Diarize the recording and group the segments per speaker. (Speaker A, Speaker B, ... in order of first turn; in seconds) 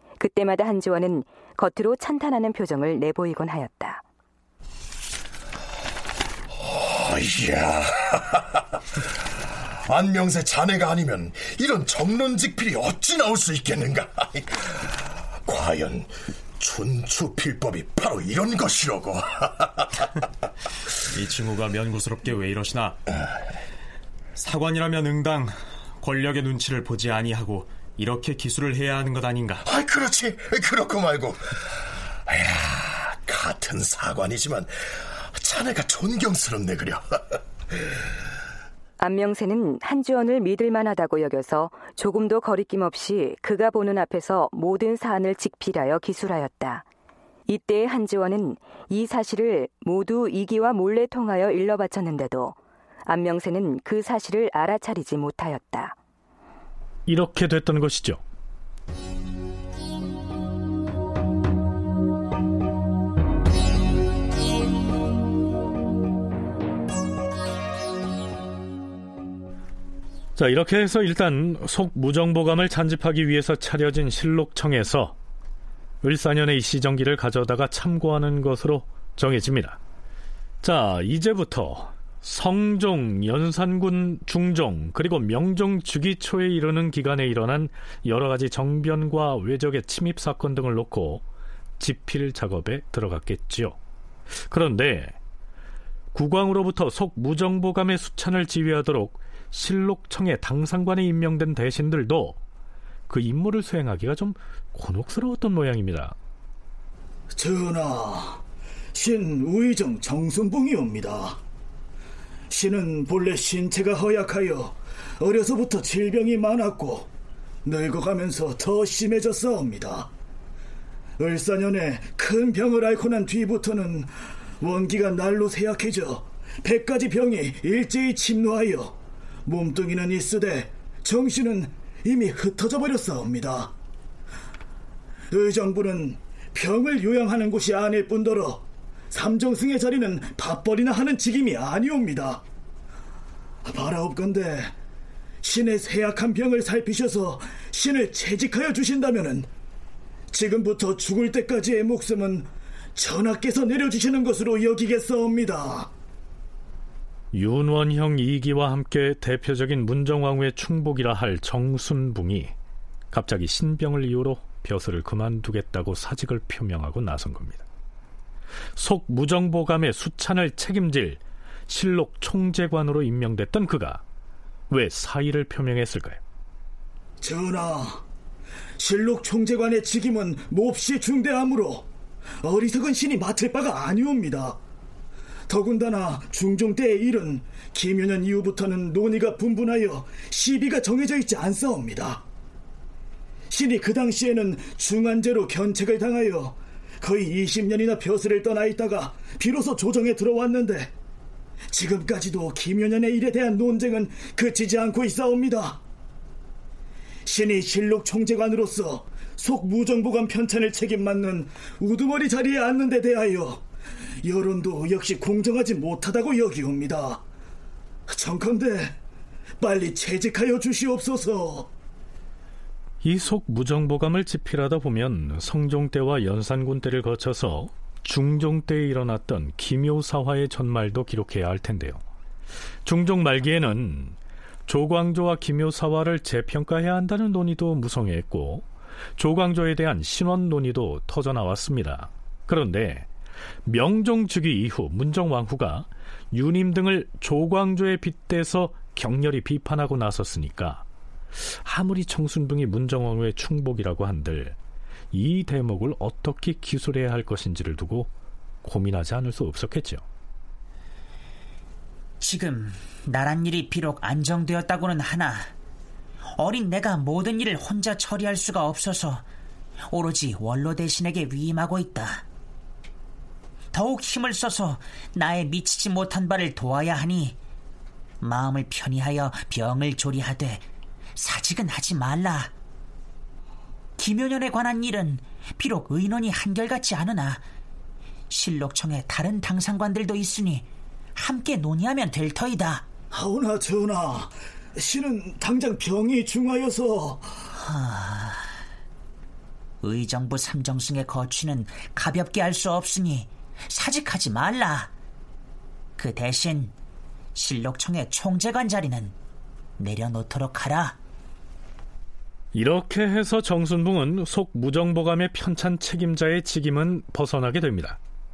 Speaker A: 0.2-4.0, 39.0-46.9, 47.5-56.0
Speaker B: 6.6-8.4, 9.8-14.9, 15.4-19.9, 29.6-31.5, 32.3-37.2
Speaker C: 21.1-23.0, 24.4-29.6
Speaker D: 57.1-58.2, 70.3-75.1, 76.0-79.8, 80.6-91.2, 91.8-93.8, 94.5-95.2, 96.1-102.4, 103.1-106.2, 157.3-162.5, 163.1-167.6, 168.8-174.0, 174.7-176.2, 223.0-232.0, 232.8-238.7, 239.2-243.1, 243.7-250.8, 251.4-254.6, 255.1-258.1, 258.6-260.0, 312.5-318.0
Speaker E: 107.3-108.4, 108.9-111.4, 112.5-117.1, 117.6-120.1, 121.2-133.7, 135.3-142.4, 143.6-144.7, 145.4-149.5, 150.3-155.9, 177.2-178.0, 178.8-181.8, 182.4-184.6, 185.5-192.2, 193.5-200.9, 201.7-205.8, 207.2-213.6, 214.2-217.2, 218.1-219.0, 219.6-221.7, 293.1-297.3
Speaker F: 262.2-265.5, 266.4-269.2, 269.9-272.2, 273.7-277.4, 278.2-280.6, 281.1-282.5, 284.0-287.4, 288.3-292.9, 297.6-298.5, 299.8-304.9, 305.9-306.7, 307.3-309.1, 309.8-311.0